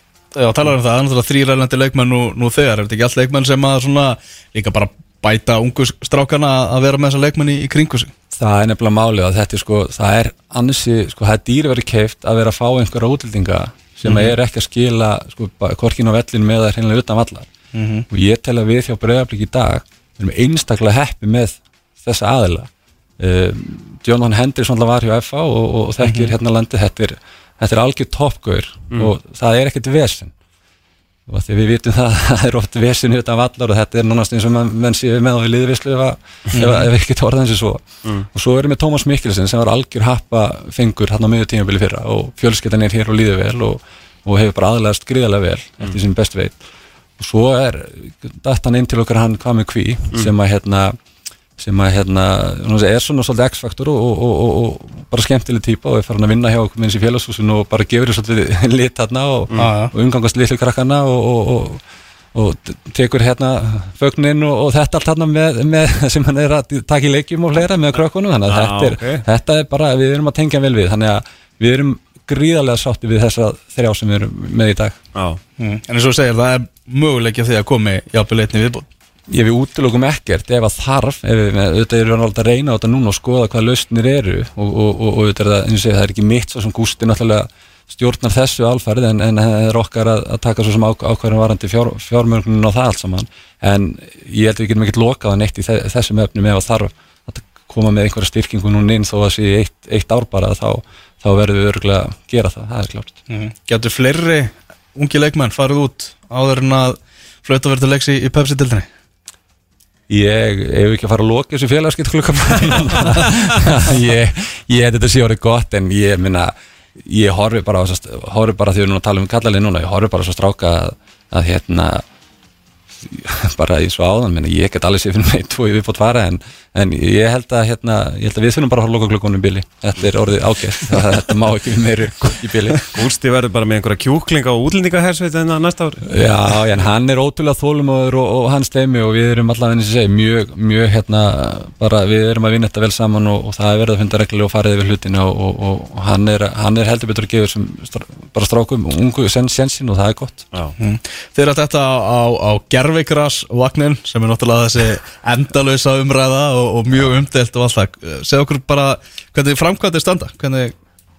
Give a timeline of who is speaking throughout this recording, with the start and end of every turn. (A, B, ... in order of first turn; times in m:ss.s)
0:00.3-0:08.1 A
0:08.3-0:17.5 B
0:14.0-0:14.3 A
0:17.7-0:18.0 A
0:18.1-0:30.3 B
0:26.0-0:26.3 A
0:31.3-0:46.6 B
0:47.2-0:50.9 B
0:51.6-1:01.8 B
0:59.5-0:59.9 A
1:02.3-1:15.0 B
1:08.5-1:09.2 C
1:15.1-1:15.4 C
1:15.6-1:18.9 A
1:19.3-1:43.2 B
1:43.3-1:48.9 A
1:50.1-2:02.0 B
2:03.0-2:13.1 B
2:12.8-2:16.1 C
2:16.0-2:30.4 B
2:30.8-2:40.8 A